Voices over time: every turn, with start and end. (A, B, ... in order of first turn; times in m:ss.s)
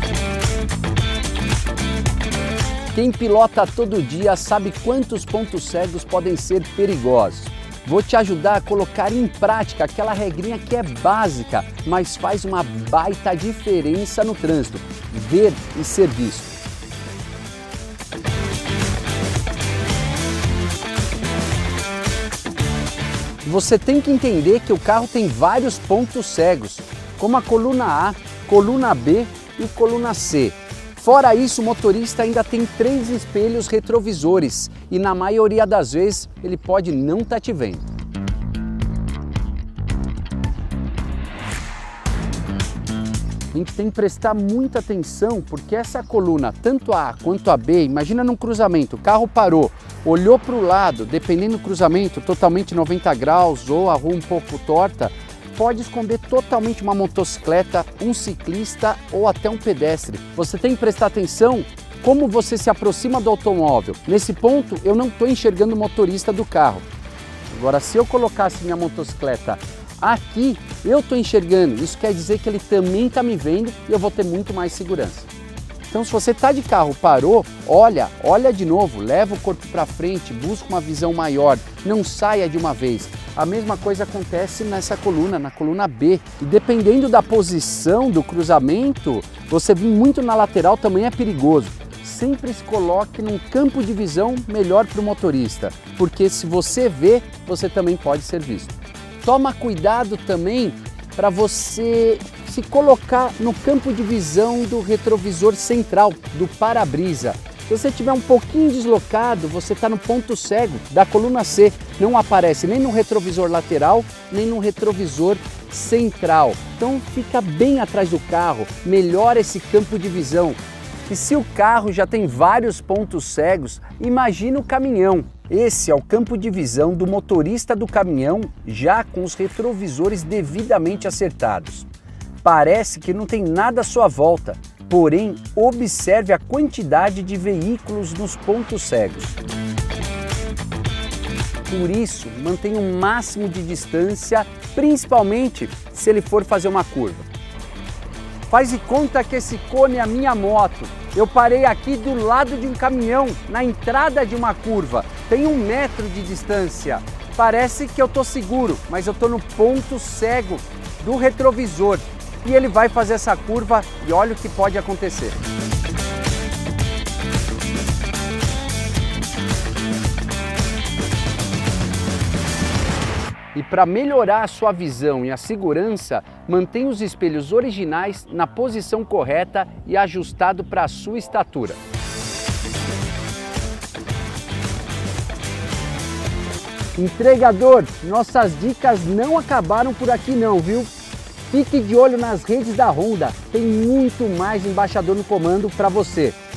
0:02.9-0:16.6 A
0:23.4-0:37.8 A
0:43.5-1:06.8 A
1:07.5-1:15.3 A
1:15.9-2:11.9 A
2:12.4-2:19.4 A
2:21.7-2:27.3 A
2:28.5-2:45.4 A
2:53.5-3:01.8 A
3:06.9-3:10.9 A
3:11.5-3:16.4 A